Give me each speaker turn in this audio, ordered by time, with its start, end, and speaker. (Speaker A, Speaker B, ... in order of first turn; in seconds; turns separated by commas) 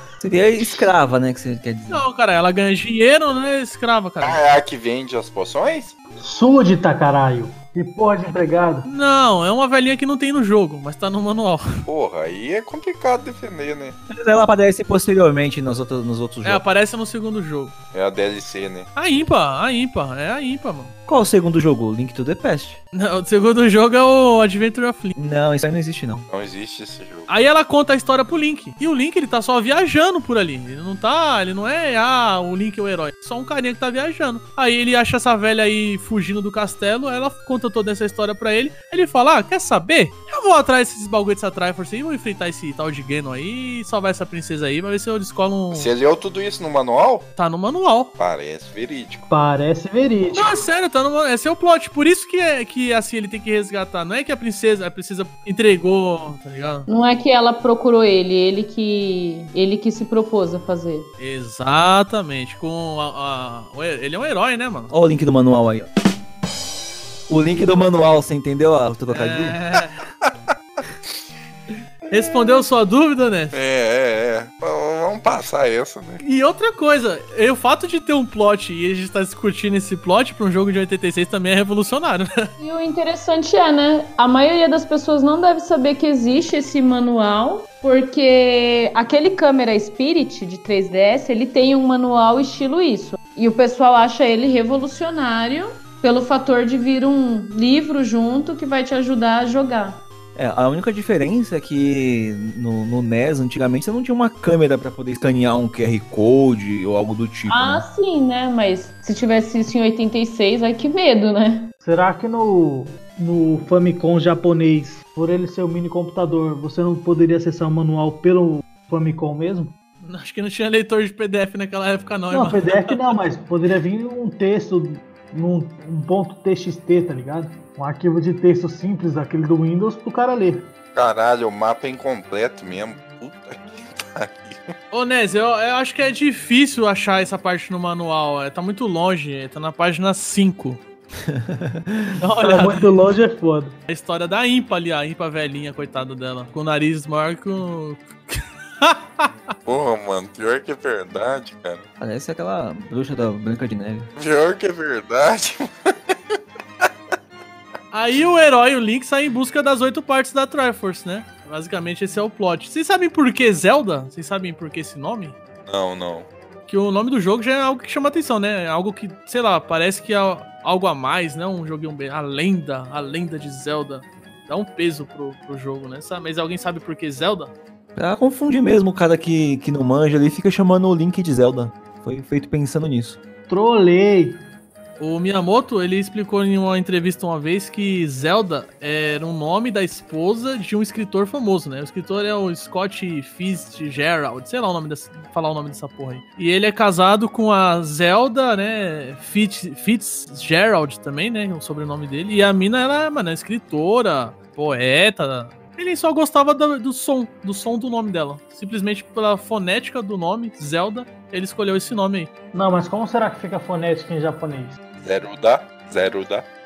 Speaker A: 0.2-2.0, Speaker B: 1.9-4.4, Speaker C: 4.2-5.9, Speaker D: 6.2-8.9, Speaker B: 8.8-11.8, Speaker C: 11.8-13.9, Speaker A: 14.1-16.6, Speaker B: 16.4-17.7, Speaker C: 17.9-18.9, Speaker B: 18.9-20.9, Speaker A: 21.1-22.8, Speaker B: 22.9-25.1, Speaker A: 25.1-26.3, Speaker C: 26.3-27.3, Speaker B: 27.3-45.9, Speaker C: 45.7-47.3, Speaker B: 47.4-48.1, Speaker C: 48.2-49.3, Speaker D: 49.3-50.6, Speaker B: 50.3-56.9, Speaker E: 56.9-61.1, Speaker B: 61.2-64.9, Speaker A: 64.9-65.9, Speaker A: 67.3-69.6, Speaker B: 69.1-70.0, Speaker B: 72.1-73.5, Speaker C: 73.5-76.2, Speaker B: 76.2-82.5, Speaker E: 82.6-100.0, Speaker A: 100.3-107.8, Speaker E: 107.5-111.7, Speaker D: 111.8-119.7, Speaker B: 120.0-123.0, Speaker D: 122.3-130.7, Speaker C: 130.9-134.7, Speaker B: 134.9-140.8, Speaker A: 141.2-142.2, Speaker B: 142.2-142.9, Speaker D: 142.4-143.8, Speaker B: 143.9-149.5, Speaker C: 149.7-151.8, Speaker A: 152.0-154.1, Speaker C: 154.2-156.9, Speaker B: 157.9-165.3, Speaker C: 165.7-166.3, Speaker B: 166.7-177.5, Speaker A: 177.9-183.2, Speaker D: 183.5-184.4, Speaker B: 185.0-212.3, Speaker D: 212.5-214.8, Speaker C: 215.0-216.4